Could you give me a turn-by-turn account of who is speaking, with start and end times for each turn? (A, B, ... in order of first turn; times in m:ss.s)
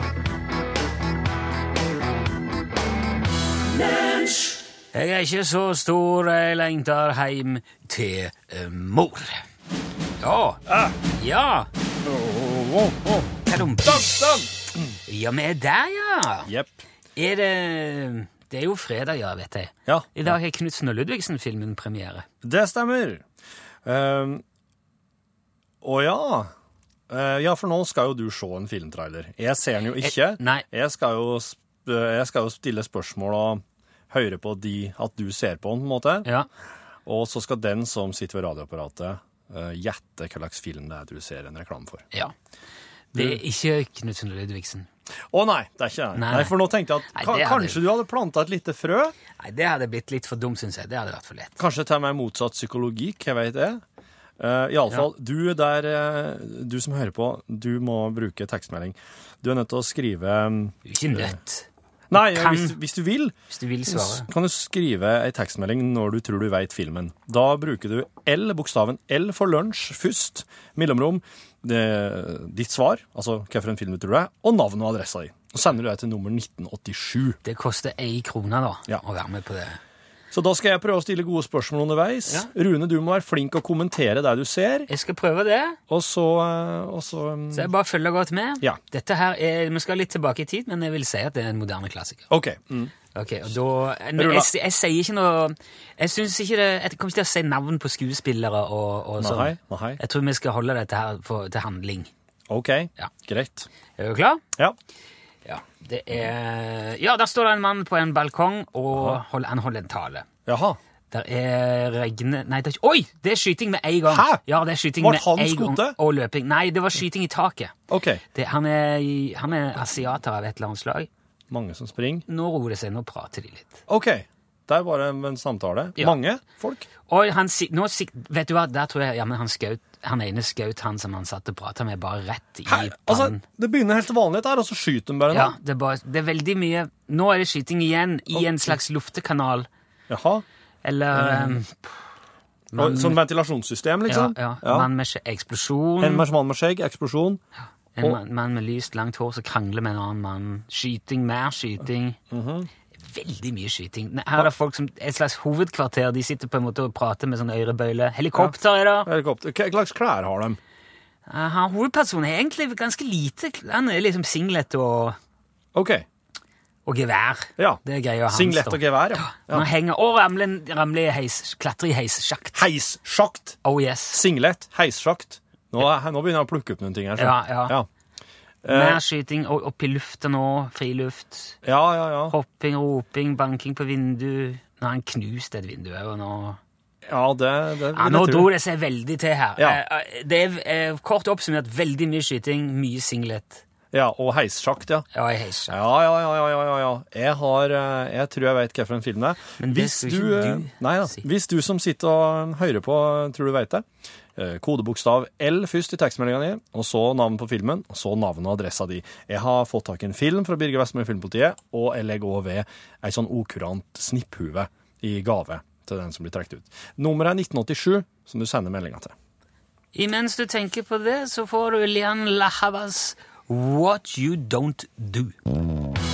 0:04.9-0:09.4 A
0:10.2-0:10.6 A
0:10.7-0:10.9 B
0:11.2-0:11.7 A
0:12.1-0:13.3 B
0:13.5-0:14.2 A
0:13.8-0:14.5 B
0:15.1-0:16.5 A
0:16.5-0:16.8 B
0:17.2-0:22.3 A
0:19.9-0:20.4 B
0:22.4-0:23.2 B
0:23.8-0:24.4 B
0:25.8-0:26.5 B
0:27.1-0:36.3 B
0:30.0-0:30.6 A
0:37.1-0:42.1 B
0:43.1-0:44.9 A
0:43.1-0:43.4 B
0:45.3-0:49.2 B
0:46.2-0:46.6 A
0:47.1-0:47.8 A
0:49.4-0:51.6 A
0:51.6-0:53.8 B
0:54.4-1:01.4 B
1:00.9-1:02.8 A
1:02.1-1:03.4 B
1:03.5-1:04.3 A
1:03.9-1:17.4 B
1:17.4-1:19.8 A
1:20.3-1:24.9 B
1:24.9-1:25.8 A
1:25.9-1:27.7 B
1:27.5-1:32.2 A
1:32.3-1:32.9 B
1:33.1-1:42.1 A
1:34.2-1:34.5 B
1:39.2-1:40.0 B
1:42.5-1:43.7 B
1:44.0-1:44.4 A
1:45.4-1:50.3 A
1:48.9-1:49.2 B
1:50.5-1:50.8 B
1:51.1-1:57.7 A
1:54.1-1:54.4 B
1:55.0-1:56.0 B
1:57.9-1:58.2 B
1:58.3-2:01.1 A
2:01.5-2:02.2 B
2:02.3-2:03.8 A
2:03.9-2:06.9 B
2:07.1-2:13.4 A
2:12.7-2:15.6 B
2:15.3-2:19.7 A
2:18.3-2:18.8 B
2:20.1-2:20.4 B
2:20.8-2:21.9 A
2:21.1-2:21.6 B
2:22.7-2:23.2 A
2:22.8-2:24.9 B
2:24.1-2:26.2 A
2:26.0-2:27.4 B
2:28.0-2:32.2 A
2:32.3-2:32.7 B
2:33.1-2:39.1 A
2:38.4-2:40.6 B
2:41.3-2:45.2 A
2:45.8-2:46.0 B
2:46.9-2:52.6 A
2:47.6-2:49.7 B
2:52.5-2:53.6 B
2:53.6-2:54.2 A
2:54.1-2:57.9 B
2:57.2-2:57.8 A
2:58.6-2:59.0 B
2:58.7-3:01.6 A
3:01.6-3:02.4 B
3:02.3-3:06.6 A
3:07.1-3:08.5 B
3:08.0-3:13.6 A
3:13.9-3:15.1 B
3:15.1-3:15.8 A
3:15.7-3:23.8 B
3:19.6-3:21.2 A
3:24.4-3:39.1 B
3:39.9-3:45.3 A